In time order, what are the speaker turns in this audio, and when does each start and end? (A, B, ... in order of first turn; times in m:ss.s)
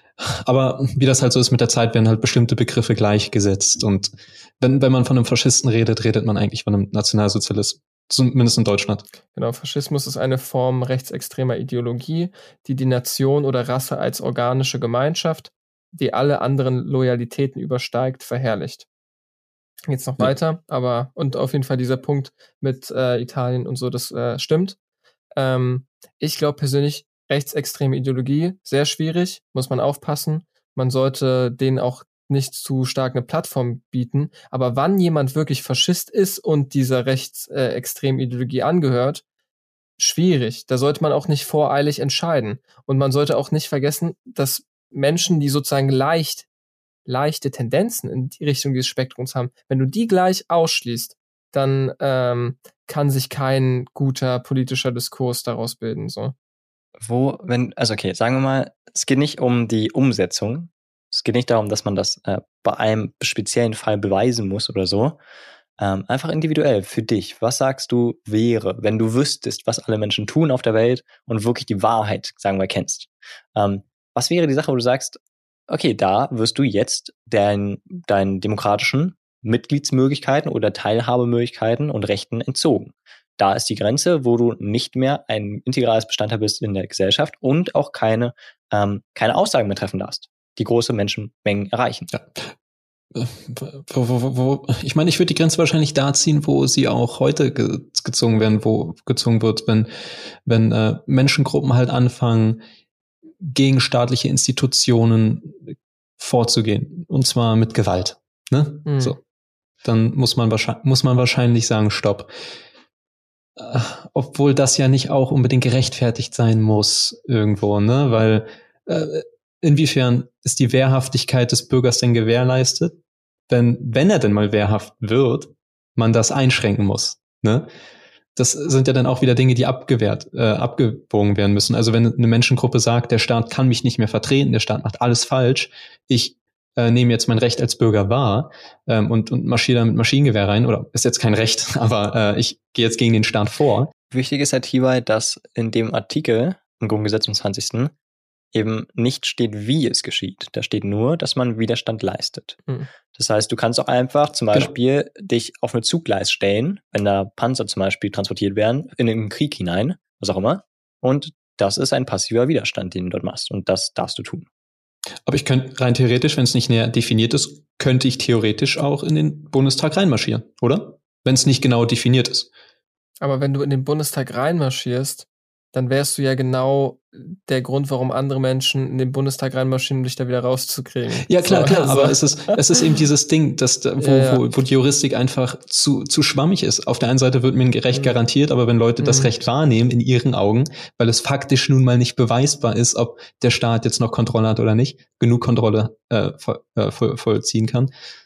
0:00.2-0:09.0 A
0:09.3-0:18.9 B
0:19.9-0:24.8 B
0:25.4-0:39.2 B
0:40.0-0:46.5 B
0:47.1-0:56.4 B
0:57.0-1:05.2 C
1:05.8-1:32.1 C
1:32.1-1:32.5 A
1:33.1-1:42.6 A
1:43.4-1:49.2 A
1:48.8-1:49.2 B
1:49.8-1:52.3 A
1:53.6-2:03.0 A
2:03.5-2:07.7 A
2:08.4-2:23.9 A
2:24.1-2:27.9 C
2:28.5-2:32.6 C
2:33.2-2:44.5 C
2:45.3-2:52.5 A
2:53.2-3:02.9 B
3:01.2-3:17.9 A
3:04.0-3:04.4 B
3:09.0-3:09.3 B